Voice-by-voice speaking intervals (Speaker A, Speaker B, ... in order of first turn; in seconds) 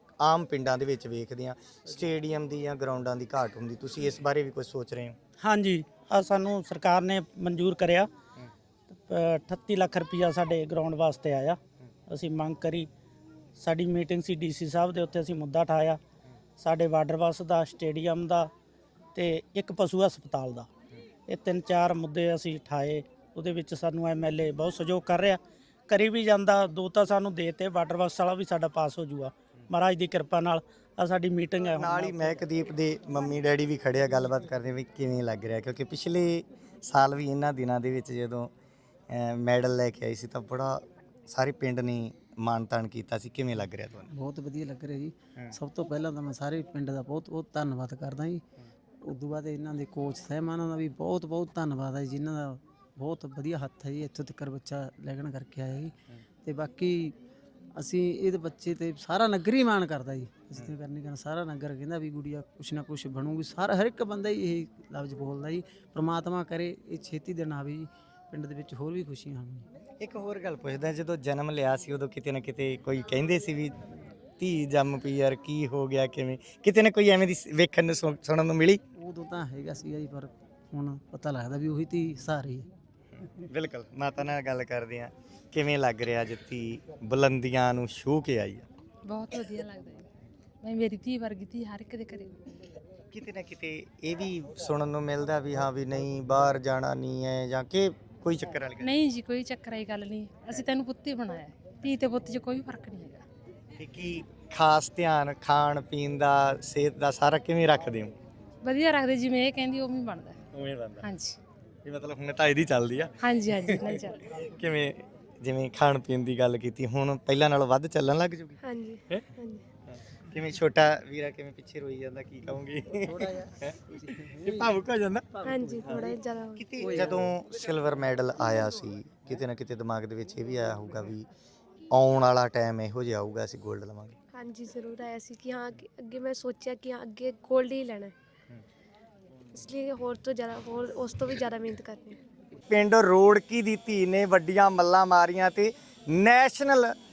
Speaker A: 0.2-5.2, 31.8-38.5, 39.1-44.1, 70.0-73.7, 74.4-78.8, 83.5-88.7, 93.1-98.9, 103.8-108.1, 110.5-111.1, 111.8-118.6, 119.9-131.3, 131.9-134.2, 142.7-146.9
Speaker B: 5.4-8.1, 9.1-11.6, 12.1-12.9, 13.6-16.0, 16.6-18.5, 19.1-20.7, 21.3-32.4
Speaker C: 44.1-48.4, 49.0-57.1, 57.8-69.7, 79.0-82.7, 126.8-127.2
Speaker D: 89.1-90.0, 90.7-92.4, 98.9-103.2, 108.7-110.3, 111.1-111.3, 113.3-114.2
Speaker E: 118.6-119.6, 125.4-126.7, 134.3-138.1, 139.5-142.2